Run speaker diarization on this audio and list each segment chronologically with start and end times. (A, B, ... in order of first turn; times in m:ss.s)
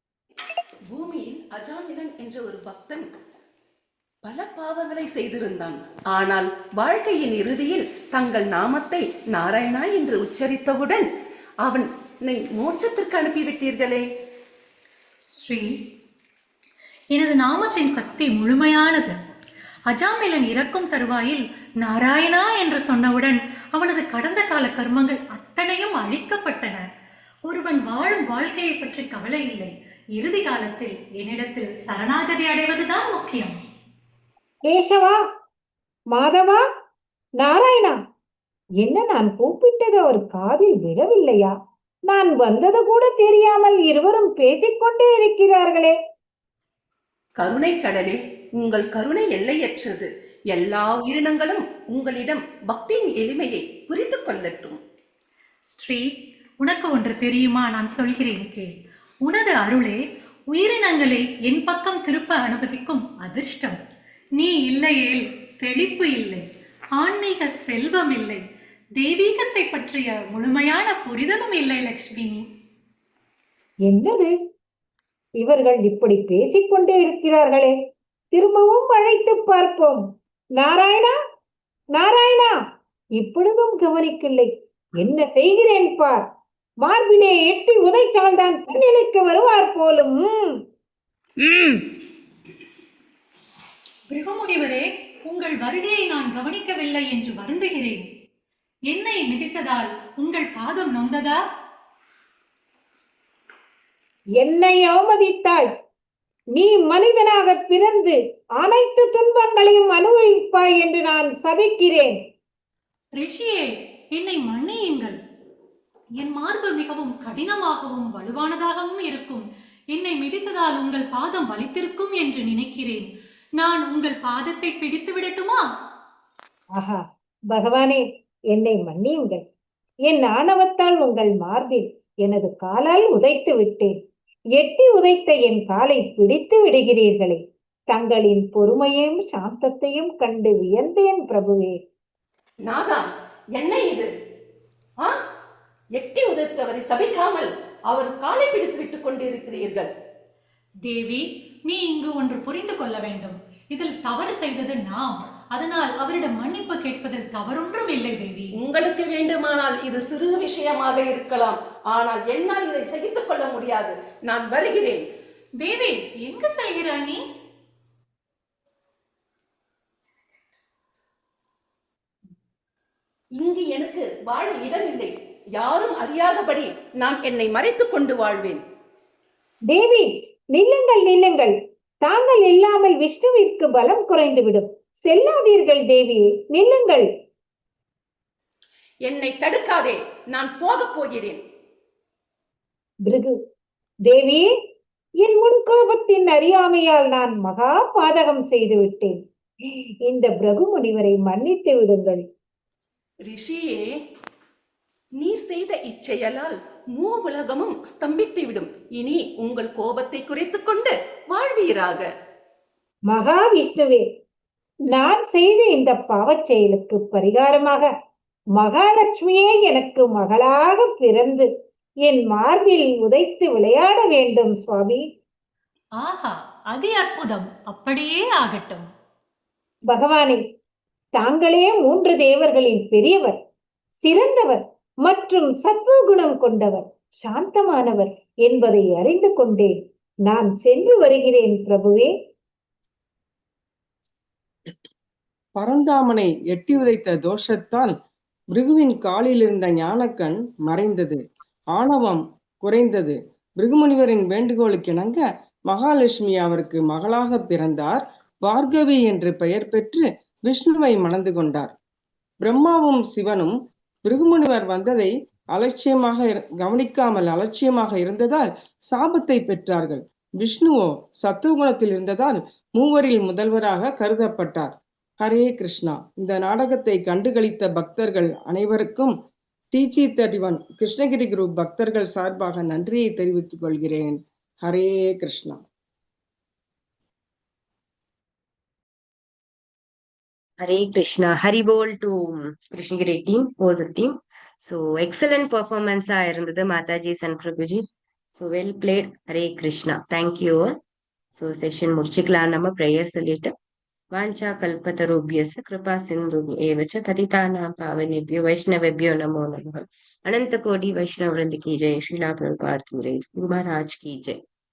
0:00.9-0:03.1 A
0:04.2-0:11.0 A
0:11.6-0:14.0 A
0:15.3-0:15.8 B
0:17.1-0:19.2 B
0:19.9-0:26.8 B
0:27.5-0:33.6 B
0:34.7-0:35.2 C
0:36.1-0:36.6 C
0:37.4-0:38.0 C
0:38.8-0:41.5 C
0:42.1-0:46.0 C
0:47.4-0:54.8 A
0:55.7-1:03.8 B
1:04.4-1:06.4 B
1:07.0-1:08.4 B
1:09.0-1:12.4 B
1:13.9-1:14.3 C
1:15.4-1:17.7 C
1:18.3-1:20.0 C
1:20.6-1:21.1 C
1:21.9-1:22.6 C
1:23.2-1:26.2 C
1:26.8-1:30.6 C
1:34.1-1:38.1 B
1:38.9-1:41.4 B
1:44.4-1:45.7 C
1:46.6-1:52.2 C
1:53.2-1:55.2 B
1:56.2-2:05.6 B
2:06.8-2:07.0 C
2:07.5-2:09.4 C
2:10.1-2:14.0 C
2:14.6-2:17.4 C
2:17.9-2:21.8 C
2:22.6-2:24.1 A
2:25.9-2:29.9 A
2:30.8-2:38.5 B
2:38.6-2:45.0 A
2:45.6-2:47.2 B
2:53.4-2:58.6 A
2:59.7-3:07.1 C
3:09.0-3:11.4 A
3:13.1-3:13.3 C
3:14.1-3:14.5 C
3:15.2-3:22.2 C
3:23.2-3:23.9 A
3:25.2-3:32.1 A
3:33.1-3:34.0 C
3:34.9-3:37.9 C
3:38.6-3:41.5 C
3:42.1-3:45.0 C
3:46.0-3:48.9 B
3:49.9-3:50.4 C
3:51.2-3:53.4 C
3:54.0-4:02.1 C
4:05.6-4:07.9 D
4:08.5-4:11.2 D
4:11.7-4:21.7 D
4:22.4-4:39.1 D
4:39.7-4:45.6 D
4:50.6-5:00.8 E
5:01.3-5:03.5 E
5:04.1-5:14.4 E